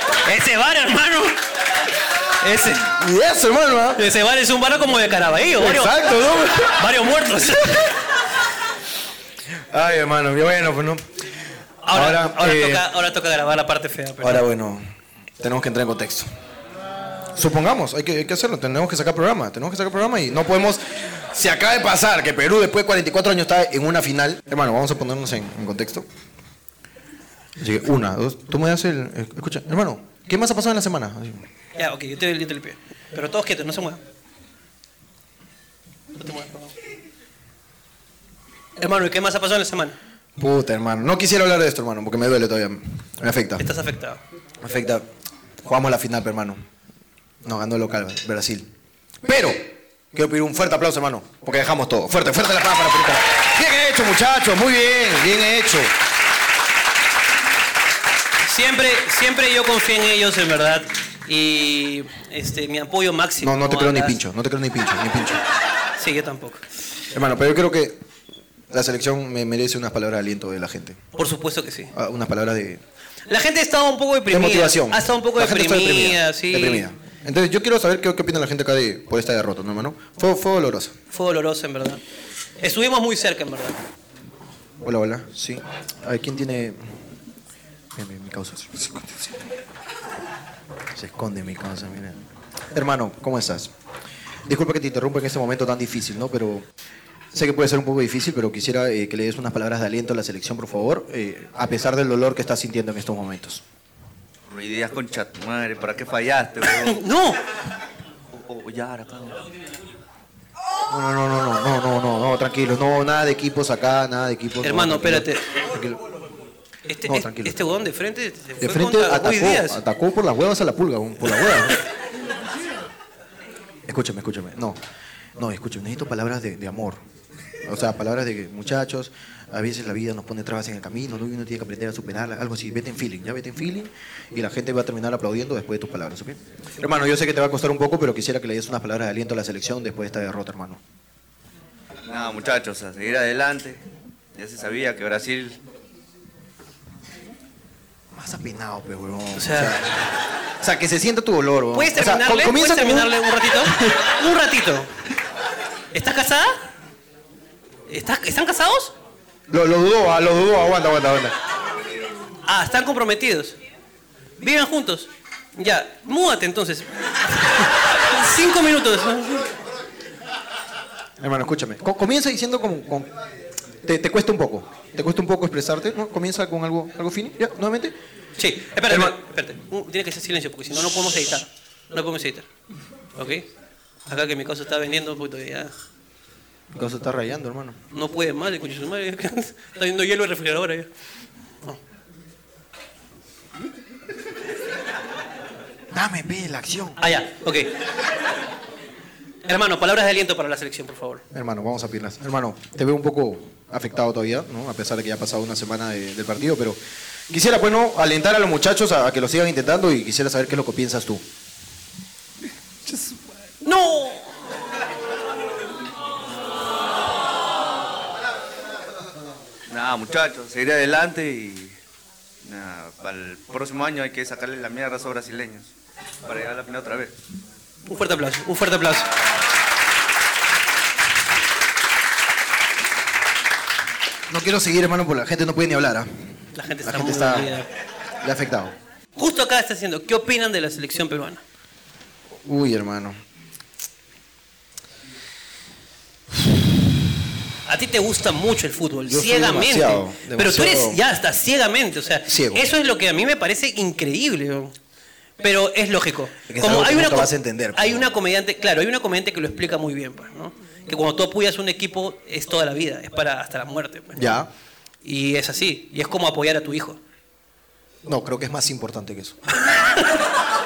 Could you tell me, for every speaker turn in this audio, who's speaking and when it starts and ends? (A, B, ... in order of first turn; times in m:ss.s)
0:00.2-0:01.4 A
0:02.4-0:02.9 A
0:02.9-0:04.0 B
0:04.0-0:06.0 A
0:05.6-0:06.8 B
0:06.8-0:08.0 A
0:09.7-0:11.1 B
0:11.8-0:14.4 A
0:11.9-0:12.9 B
0:14.2-0:14.8 B
0:15.4-0:16.3 B
0:17.4-0:26.1 B
0:27.6-0:31.5 B
0:31.8-0:34.0 A
0:36.2-0:36.7 A
0:38.8-0:40.0 A
0:40.4-0:43.7 B
0:43.6-0:44.2 A
0:44.6-0:45.0 B
0:45.6-0:46.6 B
0:47.4-0:48.7 B
0:49.2-0:55.9 B
0:58.4-1:04.2 A
1:03.4-1:05.4 B
1:06.0-1:06.6 A
1:07.1-1:08.0 B
1:08.7-1:11.0 B
1:11.2-1:11.9 A
1:11.9-1:12.8 B
1:13.3-1:16.9 A
1:14.3-1:20.9 B
1:21.1-1:22.0 A
1:22.6-1:23.8 A
1:24.8-1:26.8 B
1:28.0-1:29.4 B
1:31.0-1:32.2 B
1:32.7-1:33.7 B
1:34.5-1:36.7 B
1:37.3-1:43.6 B
1:44.5-1:47.0 C
1:46.8-1:47.4 A
1:48.3-1:49.5 C
1:50.9-1:56.0 B
1:54.6-1:55.4 A
1:56.9-1:59.8 A
1:57.0-1:57.7 B
1:58.6-2:01.8 B
2:03.9-2:04.8 B
2:05.4-2:07.0 B
2:07.6-2:20.8 B
2:22.1-2:23.8 C
2:24.4-2:25.6 C
2:28.1-2:30.0 B
2:29.4-2:29.8 A
2:30.6-2:33.2 B
2:31.7-2:34.9 A
2:35.9-2:36.6 A
2:37.9-2:39.0 A
2:39.5-2:41.4 B
2:42.5-2:43.6 A
2:44.4-2:49.5 A
2:51.2-2:53.1 B
2:53.8-2:58.0 B
2:58.4-3:02.5 A
2:58.9-2:59.2 B
3:03.2-3:03.5 A
3:04.1-3:05.7 A
3:06.7-3:07.8 B
3:07.9-3:10.9 A
3:15.9-3:17.0 B
3:17.0-3:17.7 A
3:19.5-3:21.2 A
3:21.3-3:26.8 B
3:27.3-3:31.2 B
3:33.6-3:34.4 A
3:39.7-3:41.8 C
3:42.4-3:45.7 C
3:46.2-3:47.1 C
3:47.9-3:49.1 A
3:54.3-3:56.1 B
3:56.6-3:57.7 A
3:56.8-3:57.5 B
3:58.2-3:58.8 B
3:59.2-4:01.4 A
4:02.4-4:03.2 B
4:07.7-4:14.7 A
4:09.1-4:11.0 B
4:12.3-4:12.6 B
4:15.4-4:24.2 A
4:16.5-4:18.1 B
4:24.2-4:24.5 B
4:25.0-4:27.0 A
4:28.0-4:29.4 B
4:29.6-4:30.2 A